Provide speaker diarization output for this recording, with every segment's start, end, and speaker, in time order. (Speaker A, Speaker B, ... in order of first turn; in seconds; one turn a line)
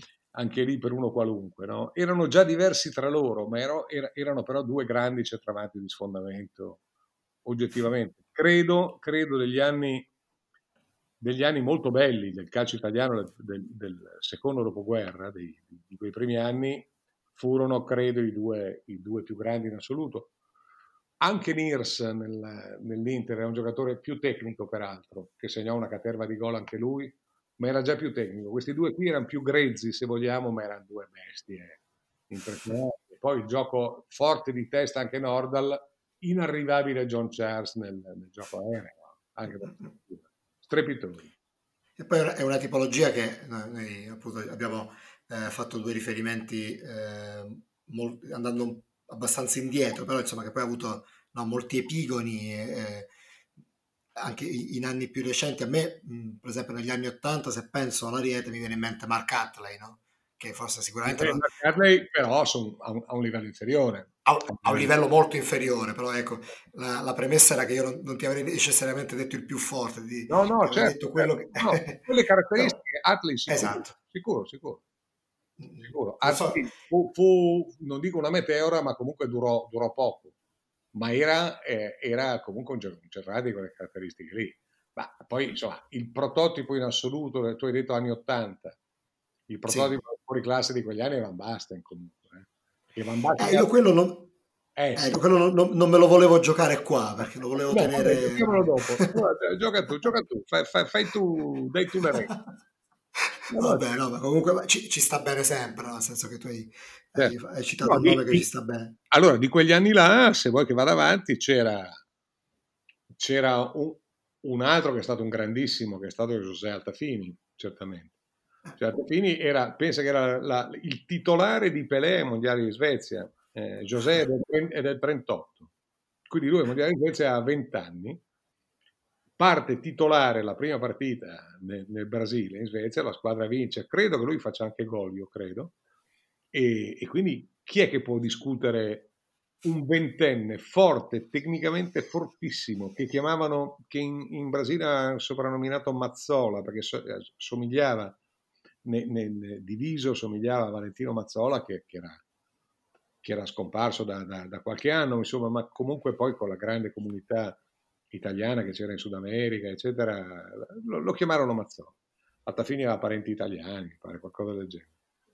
Speaker A: 0.3-6.8
Speaker A: 7.4-10.1
Speaker A: 11.2-20.3
Speaker A: 21.2-31.8
Speaker A: 32.3-41.3
Speaker B: 42.0-53.1
Speaker B: 54.1-61.4
Speaker A: 61.0-64.9
Speaker B: 64.2-72.0
Speaker A: 70.3-74.8
Speaker B: 73.5-73.9
Speaker B: 75.6-76.6
Speaker A: 75.8-80.3
Speaker A: 80.9-88.8
Speaker A: 89.5-93.7
Speaker B: 89.7-90.0
Speaker B: 93.4-94.3
Speaker A: 94.8-95.2
Speaker B: 94.9-99.1
Speaker A: 97.7-102.4
Speaker A: 103.5-103.8
Speaker B: 103.5-109.0
Speaker A: 107.2-108.4
Speaker A: 109.1-112.0
Speaker A: 113.2-118.1
Speaker A: 118.8-125.7
Speaker A: 126.3-128.2
Speaker A: 129.4-135.7
Speaker A: 136.5-139.1
Speaker A: 139.6-148.2
Speaker A: 148.8-152.2
Speaker A: 153.2-157.6
Speaker A: 158.1-161.9
Speaker A: 162.4-164.9